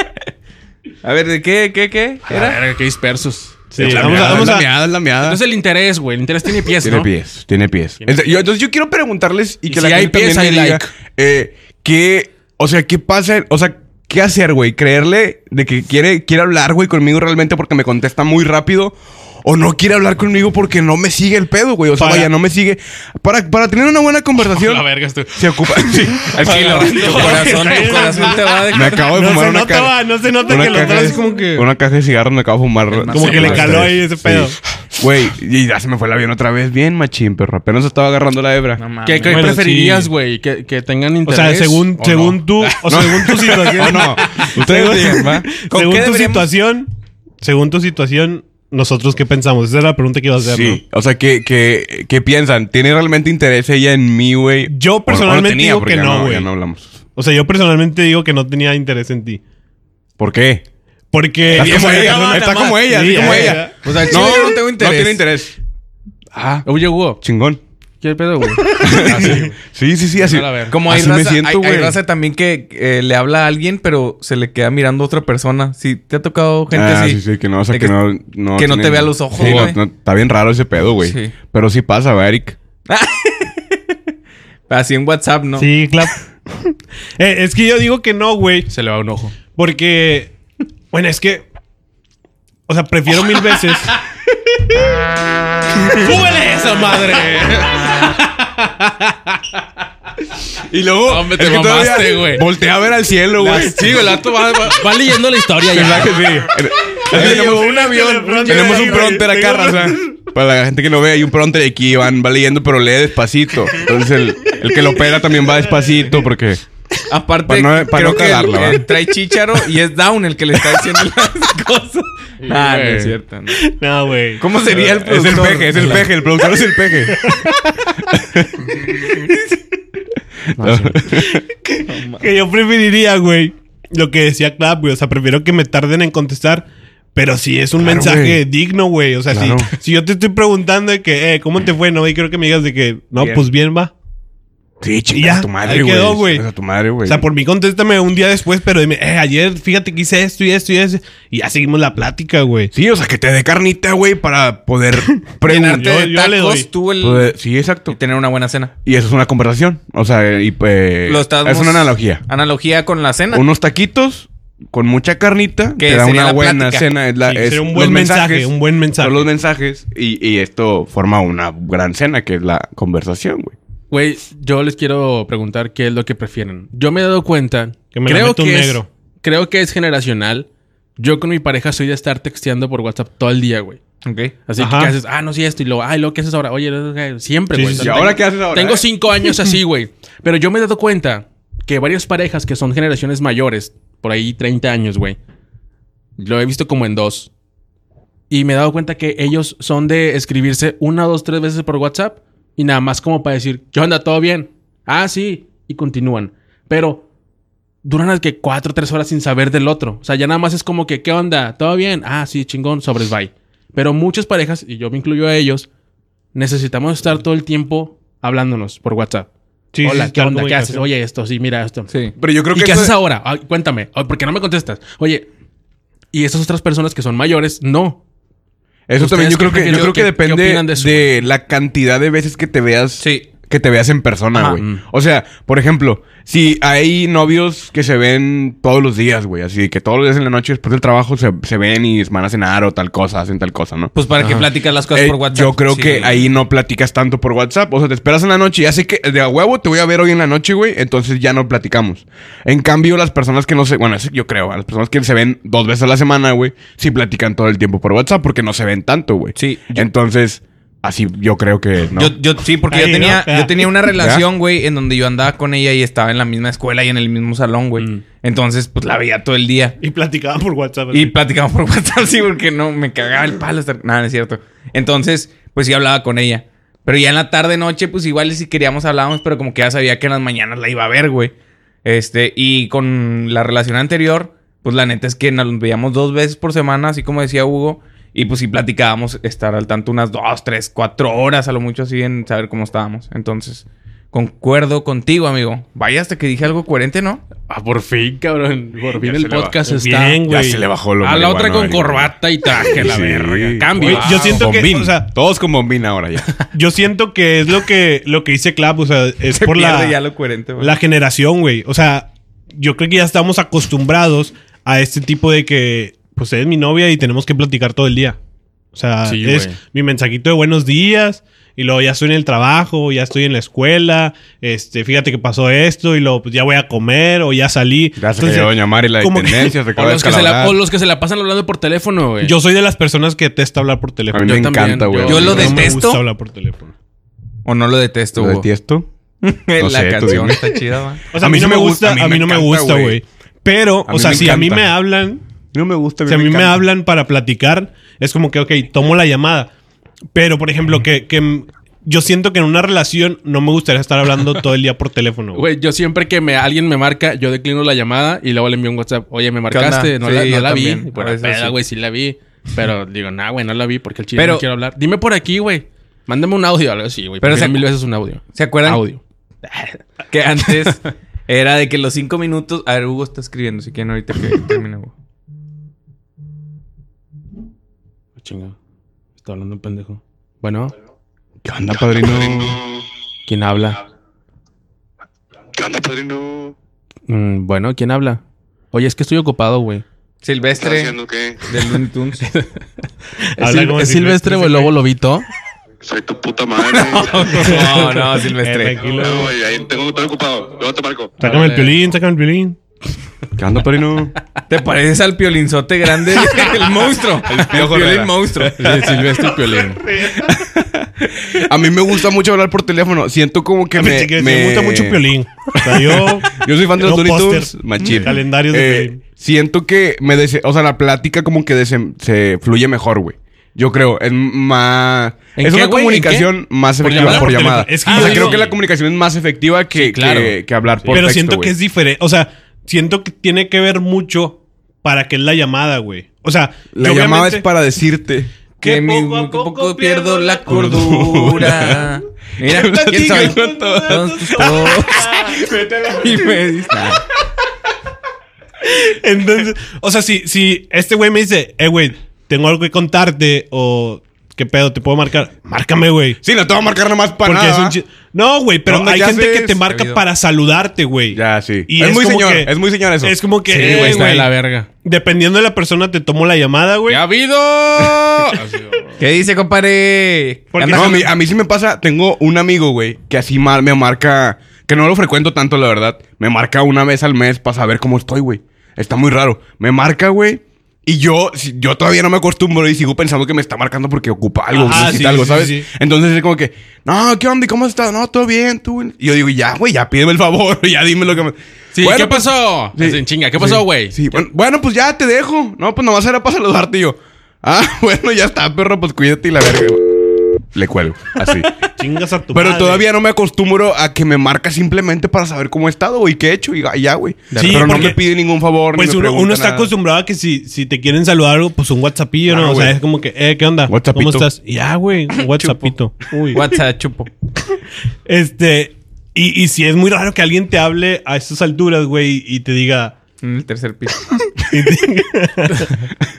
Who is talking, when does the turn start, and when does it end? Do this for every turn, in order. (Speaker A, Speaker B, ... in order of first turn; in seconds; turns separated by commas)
Speaker A: 1.0-2.6, Speaker B: 2.3-4.7, Speaker C: 3.7-4.7, Speaker D: 3.8-5.4, Speaker B: 5.2-7.1, Speaker D: 6.8-27.5, Speaker B: 8.0-8.4, Speaker B: 9.7-10.9, Speaker C: 21.9-22.3, Speaker B: 24.4-28.4, Speaker A: 26.4-29.1, Speaker C: 27.3-31.7, Speaker D: 28.7-38.8, Speaker A: 32.9-33.9, Speaker C: 33.1-34.5, Speaker A: 38.8-39.6, Speaker B: 39.0-42.4, Speaker C: 39.3-40.1, Speaker C: 41.3-50.8, Speaker A: 42.1-46.5, Speaker D: 42.8-45.5, Speaker D: 50.4-57.0, Speaker C: 54.7-56.5, Speaker C: 57.1-59.4, Speaker D: 60.2-60.6, Speaker C: 61.1-63.8, Speaker D: 61.5-65.5, Speaker B: 61.6-61.9, Speaker A: 61.6-62.0, Speaker A: 63.1-65.2, Speaker B: 66.5-67.2, Speaker D: 67.2-67.6, Speaker B: 68.0-69.5, Speaker D: 68.8-72.0, Speaker B: 70.2-70.8, Speaker A: 70.7-77.9, Speaker D: 76.7-82.5, Speaker A: 78.5-79.8, Speaker B: 79.4-79.7, Speaker A: 81.0-81.3, Speaker A: 82.9-83.9, Speaker A: 84.7-85.7, Speaker C: 85.5-88.7, Speaker B: 88.7-89.3, Speaker C: 89.5-90.3, Speaker C: 90.9-91.5, Speaker C: 92.7-94.0, Speaker C: 95.8-96.1, Speaker B: 95.8-98.2, Speaker C: 98.6-98.8, Speaker D: 100.5-104.1, Speaker B: 101.0-102.5, Speaker B: 103.3-106.5, Speaker D: 105.7-116.6, Speaker C: 107.0-110.0, Speaker B: 107.1-107.7, Speaker B: 108.5-109.1, Speaker A: 117.1-123.6, Speaker D: 117.5-118.8, Speaker B: 122.4-123.1, Speaker C: 123.5-124.4, Speaker A: 124.4-126.1, Speaker D: 124.7-127.3, Speaker B: 125.7-126.0, Speaker C: 127.1-127.6, Speaker D: 128.1-128.8, Speaker D: 130.5-131.4, Speaker B: 130.6-131.0, Speaker C: 131.2-143.9, Speaker A: 131.9-132.2, Speaker D: 137.8-138.4, Speaker D: 139.3-139.7, Speaker D: 143.2-143.4, Speaker D: 144.8-147.2, Speaker C: 145.1-146.4, Speaker C: 147.0-152.7, Speaker D: 152.7-156.0, Speaker A: 155.4-157.3, Speaker C: 155.7-156.7, Speaker D: 157.0-158.0, Speaker A: 157.9-158.7, Speaker D: 158.8-162.2, Speaker A: 161.1-163.4, Speaker D: 163.3-173.6, Speaker A: 165.8-166.9, Speaker C: 167.2-169.3, Speaker B: 173.9-183.8, Speaker C: 177.9-178.8, Speaker A: 184.0-184.3, Speaker B: 184.5-195.2, Speaker C: 184.6-184.9, Speaker C: 187.5-187.9, Speaker D: 187.8-188.9, Speaker B: 196.2-197.3, Speaker B: 198.3-207.0, Speaker B: 207.8-215.7, Speaker B: 216.3-219.3, Speaker C: 219.7-220.9, Speaker B: 219.8-221.9, Speaker A: 221.9-222.1, Speaker D: 222.2-222.9, Speaker B: 222.5-225.3, Speaker B: 226.1-228.0, Speaker D: 228.9-243.9, Speaker B: 229.0-231.1, Speaker A: 233.0-233.3, Speaker A: 234.3-234.6, Speaker A: 243.9-246.2, Speaker B: 244.2-244.5, Speaker D: 244.9-262.1, Speaker A: 259.4-259.9, Speaker A: 261.9-269.8, Speaker C: 262.7-263.7, Speaker D: 263.9-264.2, Speaker C: 269.8-271.1, Speaker A: 270.9-281.3, Speaker A: 281.8-297.2, Speaker B: 297.5-300.2, Speaker D: 298.9-299.6, Speaker C: 299.7-300.6, Speaker D: 300.3-306.3, Speaker B: 301.0-304.5, Speaker C: 303.8-305.1, Speaker C: 306.5-310.0, Speaker A: 309.3-310.7, Speaker C: 310.6-318.2, Speaker C: 318.7-329.6, Speaker B: 319.0-319.6, Speaker D: 328.0-330.6, Speaker B: 329.8-332.4, Speaker C: 332.2-334.6, Speaker D: 334.1-335.7, Speaker B: 334.2-335.8, Speaker A: 335.1-336.0, Speaker C: 335.1-336.7, Speaker A: 337.4-338.5, Speaker D: 338.2-338.9, Speaker A: 339.2-341.0, Speaker D: 339.6-340.4, Speaker C: 341.1-345.2, Speaker D: 341.1-343.0, Speaker D: 343.9-344.7, Speaker D: 345.5-346.6, Speaker C: 346.1-349.5, Speaker C: 350.1-355.4, Speaker B: 355.3-369.0, Speaker A: 359.5-361.6, Speaker A: 364.1-364.4, Speaker A: 367.2-367.6, Speaker A: 368.3-368.8, Speaker A: 370.1-374.9, Speaker B: 378.2-378.5, Speaker B: 379.2-380.7, Speaker D: 381.4-382.6, Speaker B: 383.3-383.8, Speaker E: 385.6-386.5, Speaker B: 387.1-388.2, Speaker B: 388.7-389.8, Speaker A: 390.2-392.2, Speaker E: 390.9-391.3, Speaker B: 392.2-392.6, Speaker B: 393.4-395.3, Speaker C: 393.4-394.7, Speaker E: 395.9-397.0, Speaker A: 396.6-399.0, Speaker C: 397.4-399.4, Speaker E: 399.3-401.1, Speaker B: 401.2-401.7, Speaker C: 401.2-402.6, Speaker D: 403.3-404.1, Speaker A: 404.5-408.8, Speaker D: 407.2-409.1, Speaker B: 408.6-409.8, Speaker C: 409.8-410.3, Speaker D: 409.9-431.5, Speaker C: 413.8-419.0, Speaker B: 425.4-428.6, Speaker C: 426.8-428.4, Speaker B: 429.7-431.1, Speaker C: 430.9-437.4, Speaker D: 436.7-438.3, Speaker C: 438.6-442.0, Speaker A: 438.6-445.3, Speaker D: 440.5-441.9, Speaker D: 442.4-446.2, Speaker C: 442.6-445.4, Speaker A: 445.8-447.0, Speaker C: 448.6-456.2, Speaker D: 456.2-457.8, Speaker C: 457.2-464.3, Speaker D: 458.6-459.6, Speaker A: 459.6-460.0, Speaker D: 461.1-464.1, Speaker B: 463.5-464.7, Speaker C: 464.8-467.0, Speaker B: 466.9-468.9, Speaker A: 469.0-471.1, Speaker C: 470.5-471.1, Speaker D: 470.7-501.6, Speaker C: 484.5-485.6, Speaker B: 491.7-494.0, Speaker C: 501.8-502.8, Speaker D: 502.3-509.7, Speaker B: 507.3-507.9, Speaker C: 507.3-508.0, Speaker C: 508.7-516.4, Speaker D: 512.3-512.8, Speaker D: 513.7-514.2, Speaker A: 515.2-515.7, Speaker A: 516.3-517.1, Speaker C: 518.0-523.0, Speaker A: 523.2-524.0, Speaker C: 524.4-525.7